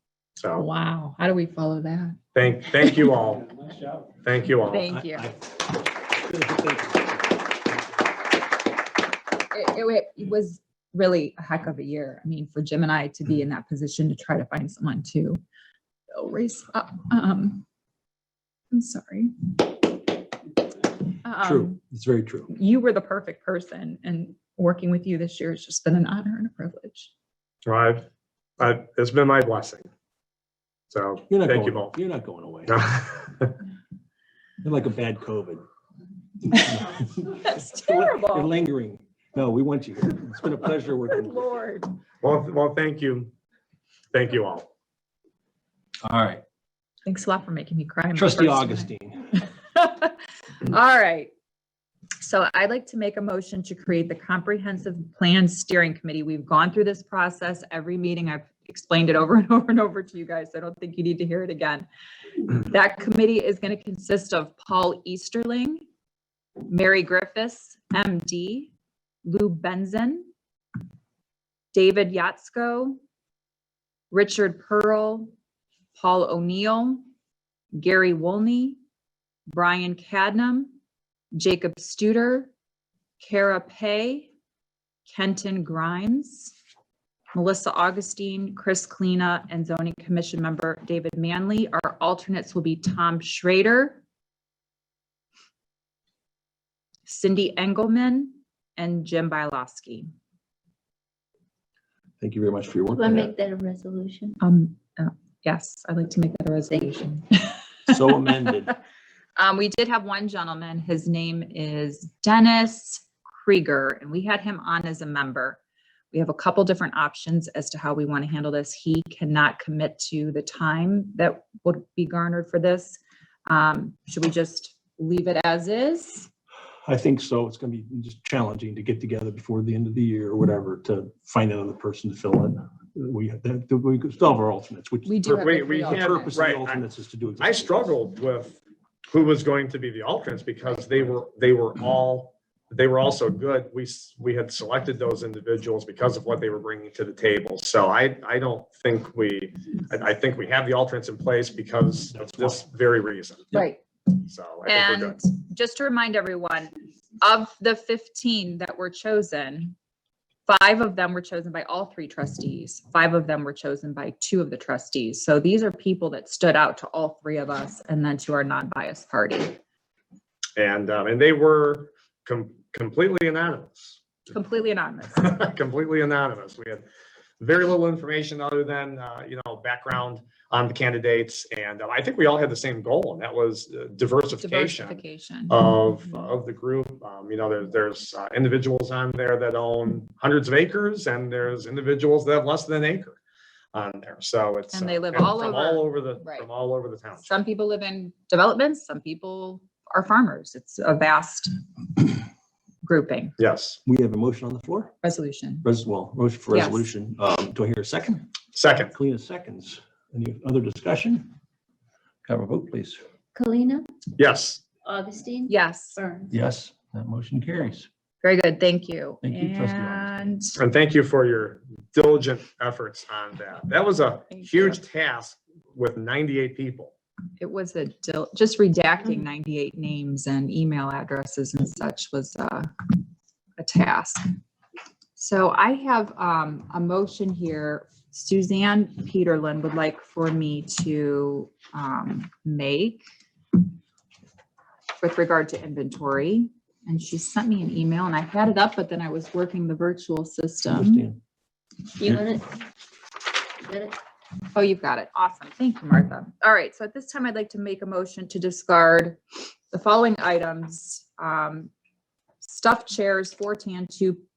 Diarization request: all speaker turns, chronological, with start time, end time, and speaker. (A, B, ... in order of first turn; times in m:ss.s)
0:00.4-0:00.7 A
0:00.5-0:02.2 B
0:02.3-0:03.6 A
0:04.2-0:04.9 A
0:04.7-0:05.3 B
0:04.9-0:07.6 C
0:09.5-0:15.4 B
0:16.1-0:17.6 B
0:18.7-0:19.8 B
0:21.2-0:21.8 B
0:21.4-0:22.5 C
0:22.5-0:27.1 B
0:27.6-0:28.0 A
0:28.6-0:29.9 A
0:30.9-0:31.9 A
0:31.3-0:32.8 C
0:32.7-0:33.4 A
0:34.6-0:35.6 C
0:36.5-0:41.4 C
0:37.4-0:38.5 B
0:41.1-0:41.9 B
0:42.2-0:43.3 A
0:44.1-0:44.7 A
0:46.0-0:46.4 C
0:47.0-0:48.9 B
0:48.1-0:49.3 C
0:49.7-0:51.3 B
0:52.2-1:01.9 B
1:02.4-1:05.8 B
1:06.7-1:08.7 B
1:09.2-1:10.3 B
1:11.7-1:13.0 B
1:14.1-1:15.3 B
1:16.0-1:17.0 B
1:17.7-1:18.8 B
1:19.5-1:20.7 B
1:21.3-1:22.5 B
1:23.2-1:24.3 B
1:25.1-1:26.5 B
1:27.3-1:34.0 B
1:37.0-1:40.1 B
1:42.2-1:43.3 C
1:42.9-1:44.4 D
1:44.4-1:48.7 B
1:47.9-1:48.7 C
1:49.4-1:55.6 B
1:56.1-2:06.3 B
2:06.8-2:15.3 C
2:15.0-2:16.4 B
2:15.3-2:16.8 A
2:15.8-2:17.9 C
2:17.4-2:33.5 A
2:33.5-2:33.8 B
2:34.1-2:35.2 A
2:34.6-2:39.7 B
2:40.5-2:49.6 B
2:50.6-2:54.0 A
2:54.3-2:55.3 B
2:55.2-2:56.8 A
2:57.4-3:13.2 A
3:04.4-3:06.3 B
3:13.7-3:17.3 A
3:14.7-3:16.5 B
3:17.2-3:22.2 B
3:22.8-3:23.4 B
3:23.4-3:23.8 A
3:23.8-3:24.9 C
3:25.0-3:25.6 B
3:25.6-3:28.3 C
3:26.5-3:26.9 B
3:28.5-3:28.9 A
3:28.9-3:31.3 C
3:32.2-3:33.0 C
3:33.3-3:33.9 D
3:34.2-3:34.6 A
3:34.8-3:36.4 D
3:35.5-3:36.0 B
3:36.3-3:37.9 C
3:38.2-3:40.6 B
3:39.2-3:40.4 C
3:40.6-3:46.9 A
3:44.3-3:44.8 B
3:47.4-3:52.7 B
3:53.6-3:54.2 B
3:55.2-4:03.0 B
4:05.0-4:11.1 B
4:10.7-4:11.2 C
4:12.0-4:12.5 D
4:13.6-4:14.0 D
4:14.5-4:21.7 B
4:22.4-4:24.2 B